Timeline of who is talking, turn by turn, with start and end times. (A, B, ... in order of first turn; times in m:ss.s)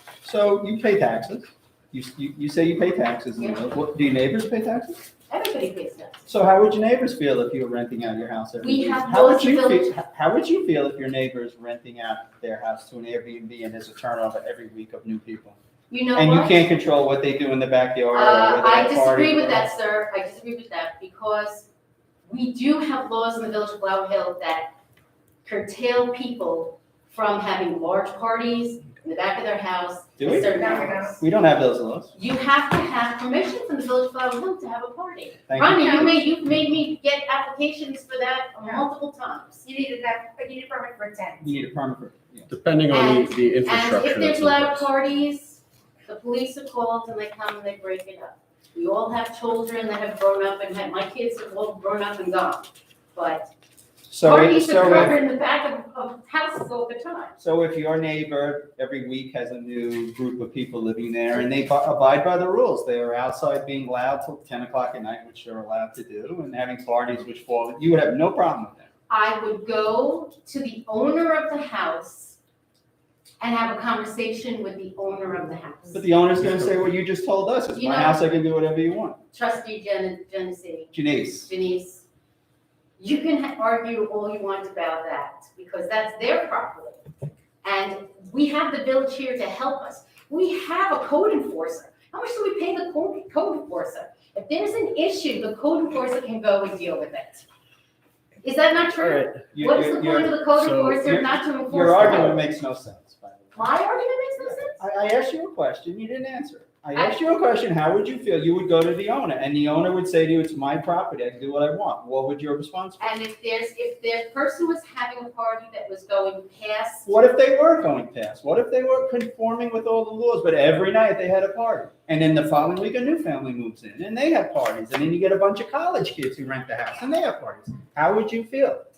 0:00.2-0:05.0 A
0:05.3-0:06.3 B
0:06.3-0:15.6 A
0:08.6-0:09.9 B
0:15.9-0:16.6 B
0:16.1-0:19.7 A
0:18.1-0:21.7 B
0:22.3-0:24.7 B
0:25.4-0:31.2 B
0:30.2-0:32.1 A
0:30.5-0:31.2 C
0:32.2-0:39.6 B
0:35.5-0:36.2 A
0:39.6-0:41.5 C
0:41.4-0:42.5 A
0:42.5-0:44.9 D
0:42.9-0:53.5 B
0:54.1-0:55.2 A
0:54.2-0:57.4 B
0:57.4-1:08.9 A
1:09.1-1:12.4 B
1:13.4-1:16.1 B
1:15.9-1:19.2 A
1:17.7-1:18.2 B
1:19.3-1:22.0 B
1:20.9-1:21.5 A
1:23.0-1:27.0 B
1:27.6-1:37.4 B
1:38.4-1:42.4 B
1:38.9-1:39.4 D
1:39.5-1:40.5 A
1:40.6-1:41.2 D
1:41.0-1:43.7 A
1:43.6-1:44.8 B
1:44.8-1:53.1 A
1:46.9-1:47.2 B
1:53.0-1:57.1 B
1:57.1-2:08.8 A